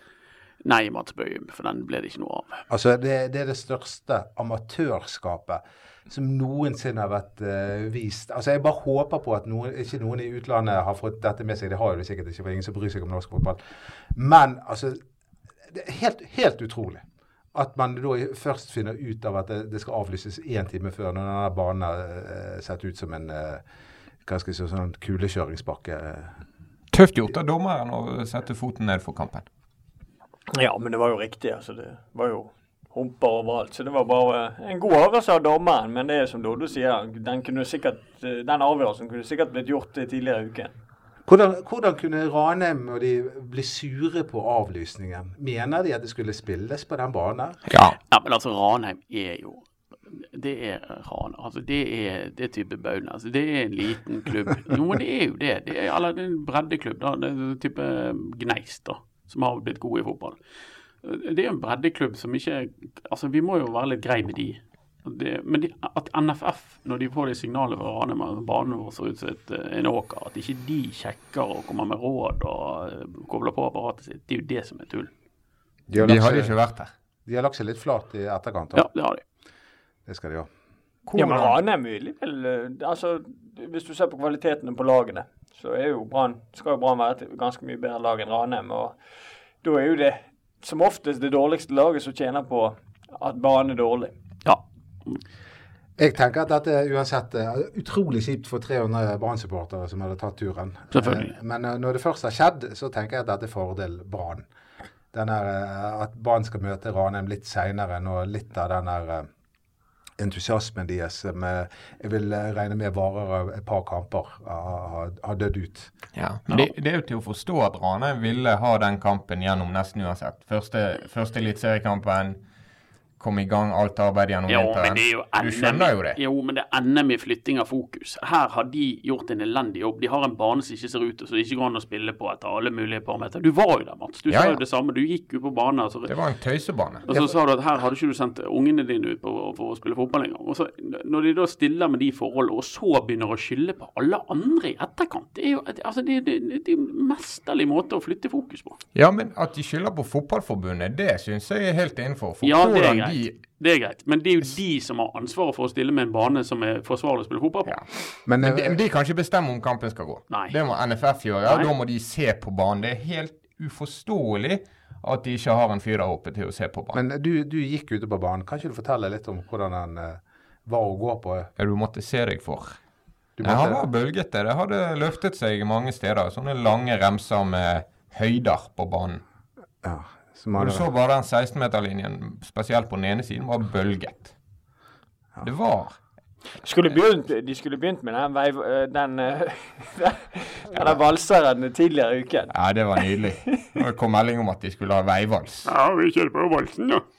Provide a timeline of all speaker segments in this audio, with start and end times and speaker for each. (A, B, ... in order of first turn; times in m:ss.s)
0:00.6-0:02.6 A
0:02.7-0:13.6 B
0:14.1-0:15.0 B
0:15.7-0:23.6 B
0:24.2-0:26.4 B
0:26.9-0:29.5 C
0:30.5-0:40.7 D
0:41.3-0:47.6 B
0:47.7-0:48.0 C
0:48.1-1:00.4 A
1:01.0-1:15.1 A
1:15.9-1:16.5 B
1:16.0-1:16.9 C
1:17.3-1:18.9 B
1:18.8-1:19.2 A
1:20.1-1:20.5 B
1:21.1-1:21.6 C
1:21.2-1:29.0 D
1:29.6-1:34.1 D
1:34.4-1:35.2 A
1:36.0-1:44.5 B
1:40.9-1:41.3 A
1:45.1-1:49.3 B
1:50.2-1:55.9 B
1:56.2-2:02.4 C
2:03.2-2:06.2 C
2:04.5-2:16.1 A
2:14.3-2:14.6 C
2:16.1-2:17.3 C
2:17.1-2:28.8 A
2:29.0-2:33.3 C
2:32.4-2:37.8 A
2:38.3-2:38.8 B
2:38.4-2:47.0 C
2:40.3-2:40.6 A
2:41.4-2:41.7 A
2:46.9-2:51.5 B
2:51.6-2:52.8 C
2:53.4-2:53.8 B
2:53.4-2:59.2 C
2:59.8-3:00.8 B
3:00.6-3:04.4 C
3:05.4-3:06.0 C
3:06.6-3:13.7 D
3:12.5-3:15.7 C
3:15.7-3:17.0 A